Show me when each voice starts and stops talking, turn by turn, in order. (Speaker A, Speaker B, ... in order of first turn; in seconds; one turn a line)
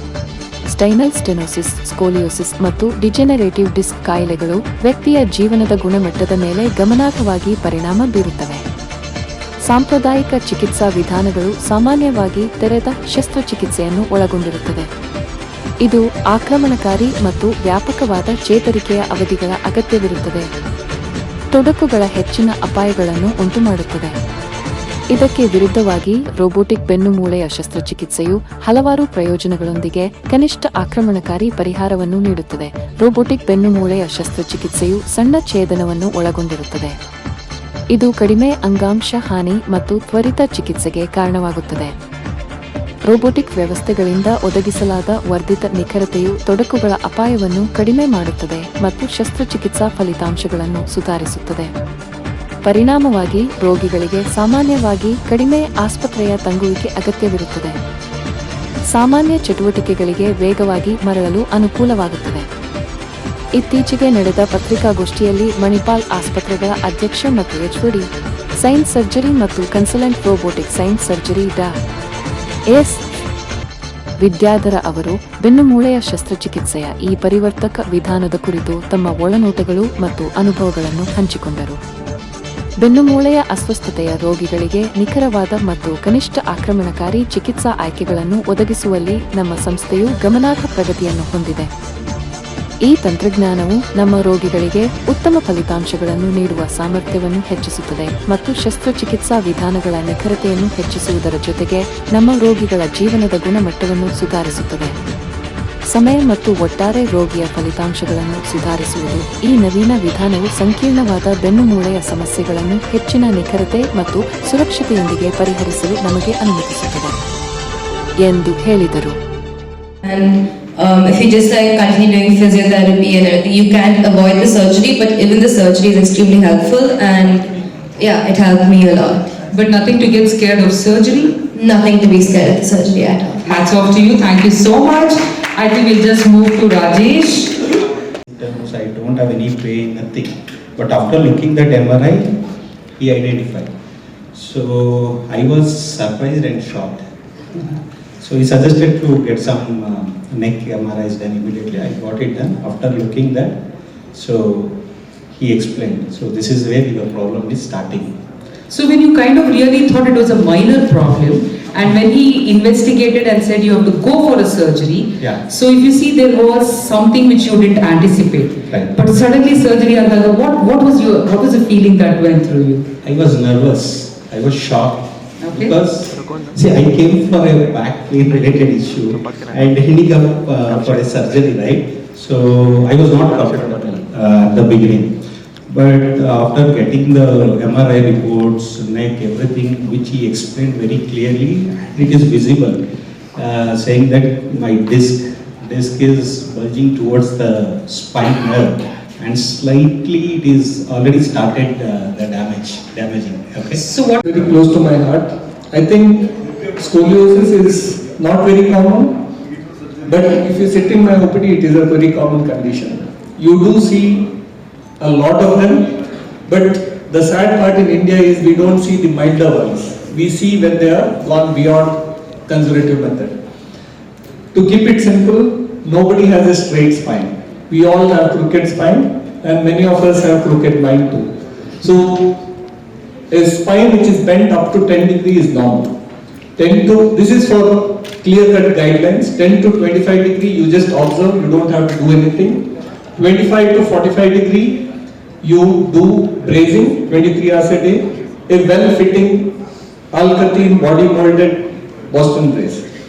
Speaker A: 0.7-8.7
Speaker A: 9.7-14.9
Speaker A: 15.8-20.5
Speaker A: 21.5-24.2
Speaker A: 25.1-37.0
Speaker A: 37.9-42.0
Speaker A: 43.0-51.7
Speaker A: 52.6-57.8
Speaker A: 58.9-62.5
Speaker A: 63.6-68.1
Speaker A: 68.6-71.7
Speaker A: 72.7-73.0
Speaker A: 74.2-81.8
Speaker A: 82.8-91.7
Speaker A: 92.8-105.0
Speaker A: 105.9-117.2
Speaker A: 118.2-119.2
Speaker B: 120.0-129.4
Speaker C: 129.5-131.4
Speaker B: 131.5-133.4
Speaker C: 133.4-137.7
Speaker D: 138.3-142.4
Speaker D: 143.0-143.7
Speaker D: 144.3-153.6
Speaker D: 154.1-154.8
Speaker D: 155.3-158.2
Speaker C: 158.7-172.9
Speaker D: 173.0-192.8
Speaker C: 175.4-175.8
Speaker D: 193.3-203.8
Speaker C: 203.8-204.2
Speaker E: 204.2-209.2
Speaker E: 210.0-214.4
Speaker E: 215.0-223.4
Speaker E: 224.5-232.5
Speaker E: 233.3-236.0
Speaker E: 236.6-244.9
Speaker E: 245.4-249.6
Speaker E: 250.1-252.9